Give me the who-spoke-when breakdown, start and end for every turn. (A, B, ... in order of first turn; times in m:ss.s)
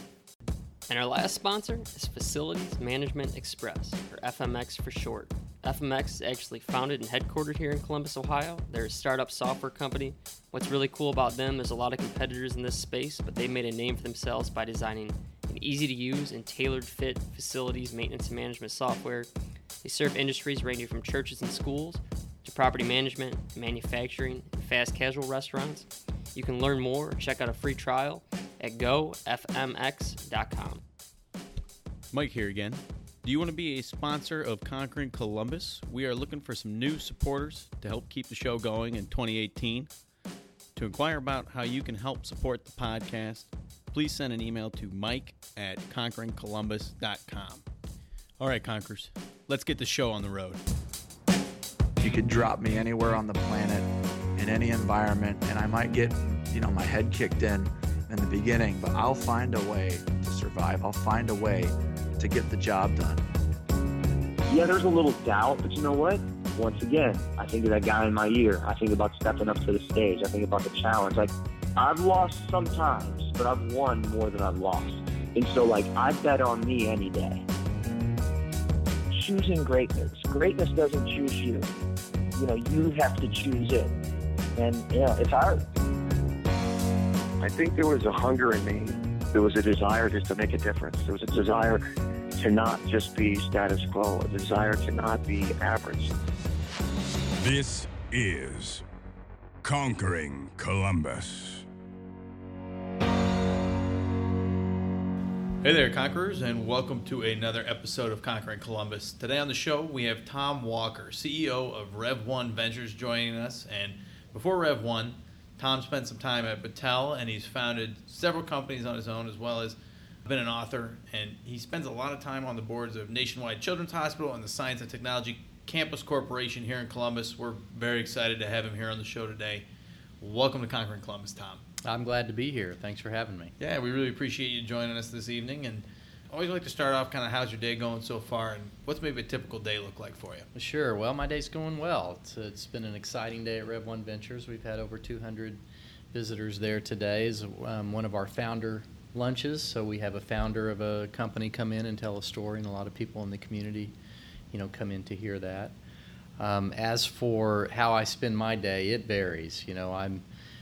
0:00.9-0:19.3 A
0:19.8-0:30.8 A
0:32.1-0:39.9 B
0:40.8-0:47.6 B
0:48.4-0:50.6 B
0:52.0-1:03.3 C
1:04.5-1:17.4 D
1:19.1-1:21.7 D
1:22.3-1:24.0 D
1:24.6-1:25.6 D
1:27.4-1:31.8 E
1:32.4-1:36.2 E
1:37.4-1:38.8 F
1:39.6-1:41.6 F
1:45.6-2:09.6 B
2:10.2-2:11.6 B
2:11.8-2:13.5 G
2:13.6-2:20.5 B
2:20.5-2:33.9 G
2:34.5-2:35.8 G
2:36.4-2:40.2 G